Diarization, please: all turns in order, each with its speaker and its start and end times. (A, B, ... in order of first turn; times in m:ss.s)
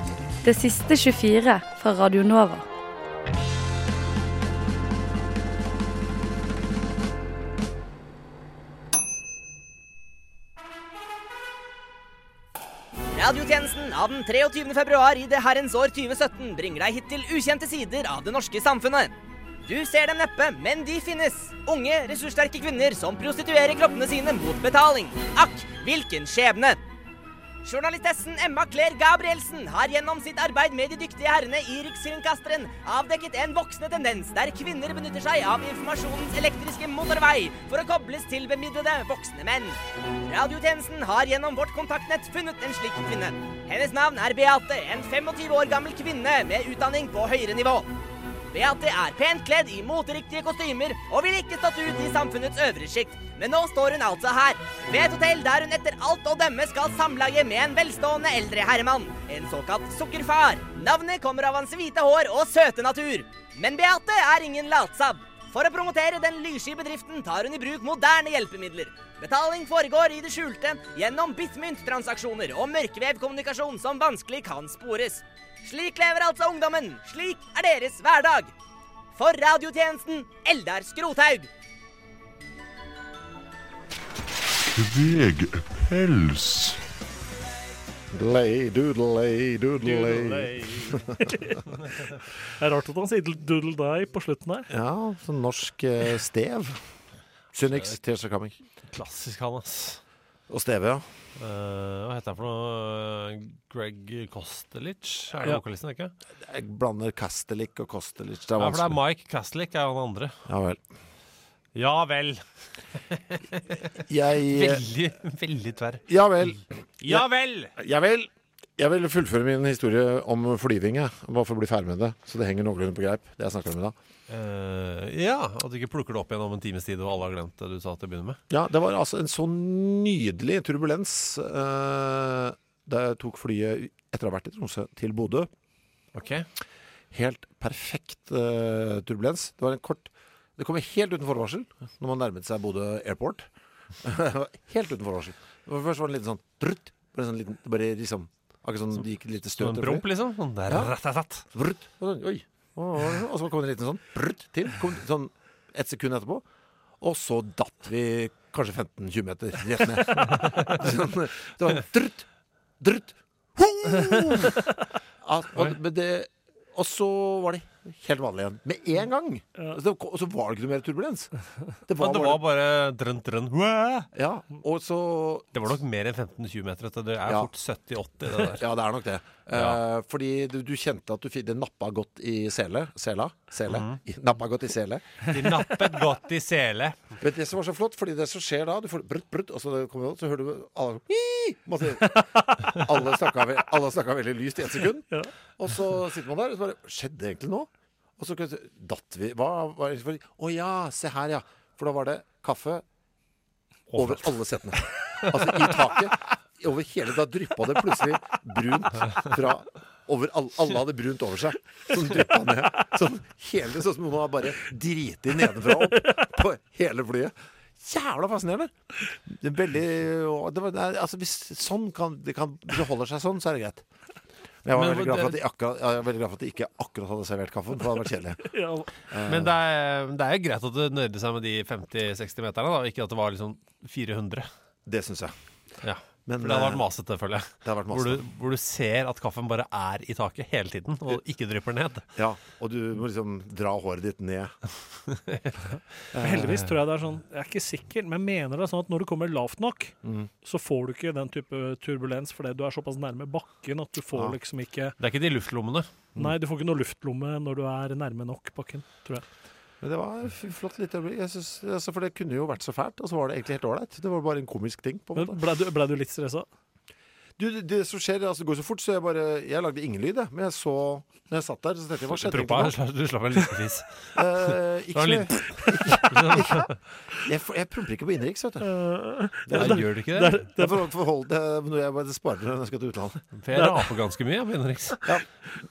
0:00.4-0:02.7 A
0:13.1-0:19.1 B
0:19.7-0:26.8 B
0:27.6-0:47.9 B
0:48.5-1:18.5 B
1:19.2-1:21.5 B
1:24.7-1:26.8 C
1:28.1-1:31.1 D
1:29.9-1:30.2 E
1:32.6-1:34.7 E
1:34.7-1:38.6 D
1:37.6-1:38.0 F
1:38.6-1:40.0 F
1:40.5-1:41.3 D
1:41.4-1:46.1 F
1:46.4-1:49.0 D
1:48.6-1:50.5 F
1:50.5-1:50.8 D
1:51.7-1:53.6 F
1:54.1-1:54.8 D
1:54.4-1:56.0 F
1:56.1-2:04.0 D
1:57.0-1:57.7 F
2:04.3-2:08.4 F
2:08.5-2:15.5 D
2:16.1-2:16.5 F
2:17.1-2:36.5 D
2:28.9-2:31.5 F
2:37.0-2:42.3 D
2:42.8-2:44.5 D
2:45.2-2:51.3 D
2:51.9-2:52.5 D
2:52.0-2:54.1 F
2:54.1-2:55.5 D
2:55.5-2:58.7 F
2:57.2-2:58.0 D
2:58.6-3:05.1 D
2:59.4-2:59.8 F
3:03.7-3:04.0 F
3:05.3-3:07.1 F
3:07.2-3:12.2 D
3:12.8-3:15.1 D
3:15.6-3:22.8 D
3:23.9-3:25.9 F
3:23.9-3:38.8 D
3:39.3-3:43.9 D
3:44.6-3:48.4 D
3:44.7-3:45.4 F
3:48.5-3:48.9 E
3:49.1-3:49.6 D
3:49.3-3:54.5 F
3:54.8-3:58.3 D
3:55.8-4:02.1 F
4:02.1-4:04.6 D
4:04.7-4:06.8 F
4:06.2-4:06.4 D
4:06.2-4:15.0 E
4:10.0-4:10.3 D
4:14.1-4:14.4 D
4:15.0-4:16.2 F
4:16.2-4:19.4 E
4:19.8-4:25.4 D
4:25.2-4:26.6 E
4:27.4-4:32.8 D
4:32.1-4:37.0 F
4:34.2-4:36.7 D
4:37.2-4:38.7 D
4:38.6-4:40.9 E
4:39.5-4:43.2 D
4:39.5-4:40.5 F
4:43.3-4:45.0 F
4:43.5-4:43.8 E